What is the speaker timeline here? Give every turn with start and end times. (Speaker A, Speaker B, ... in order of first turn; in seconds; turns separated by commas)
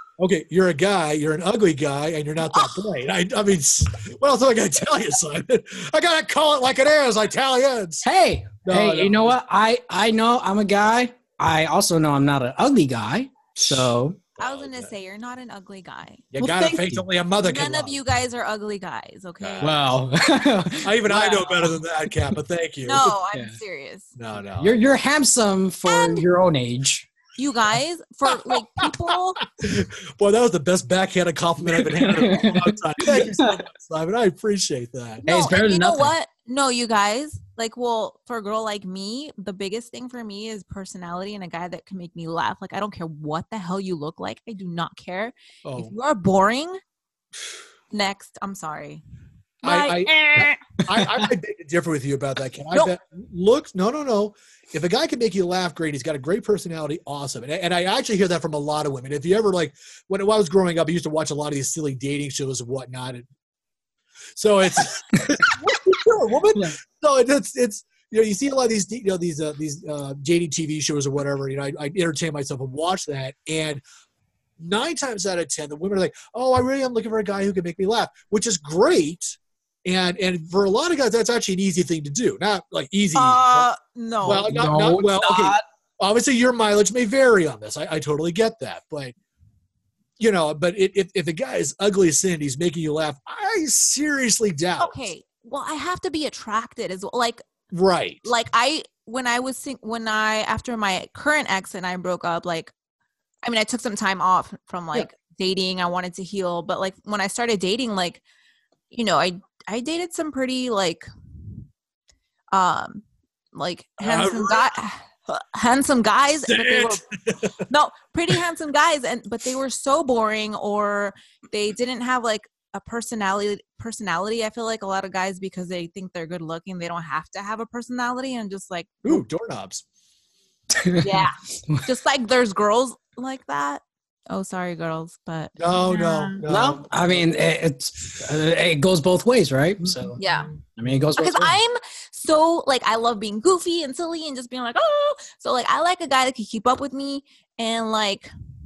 Speaker A: 0.2-8.1, Speaker B: 2.5-2.8, Speaker C: 8.0-14.2, Speaker A: 8.7-9.3, Speaker A: 13.6-14.9, Speaker B: 14.4-16.3, Speaker A: 16.3-18.0, Speaker C: 16.4-17.0, Speaker B: 17.4-19.8, Speaker A: 19.4-19.8, Speaker C: 19.6-21.8, Speaker A: 20.8-23.1, Speaker B: 22.9-24.1, Speaker A: 24.2-24.8, Speaker C: 24.6-27.1, Speaker B: 25.9-26.2, Speaker B: 27.4-29.4, Speaker A: 29.6-35.2, Speaker C: 31.6-33.5, Speaker B: 35.2-46.8, Speaker C: 35.3-36.1, Speaker A: 45.6-46.0, Speaker B: 47.9-49.0, Speaker B: 49.6-50.6, Speaker A: 49.6-63.3, Speaker C: 51.0-51.3, Speaker A: 64.3-73.8, Speaker A: 74.6-83.7, Speaker B: 83.2-84.5, Speaker C: 84.2-85.6, Speaker A: 84.2-89.1, Speaker A: 90.2-95.0, Speaker B: 94.8-97.4, Speaker A: 97.7-98.3, Speaker B: 98.2-102.7, Speaker B: 103.4-108.2, Speaker B: 108.9-111.1, Speaker B: 112.5-117.0, Speaker A: 114.0-114.7, Speaker A: 116.5-117.6, Speaker B: 117.7-129.1, Speaker A: 129.1-129.8, Speaker C: 130.7-131.8, Speaker B: 131.0-136.4, Speaker A: 135.6-137.2, Speaker C: 136.5-140.2, Speaker A: 140.1-140.4, Speaker B: 140.2-140.5, Speaker C: 140.8-141.6, Speaker B: 141.2-148.3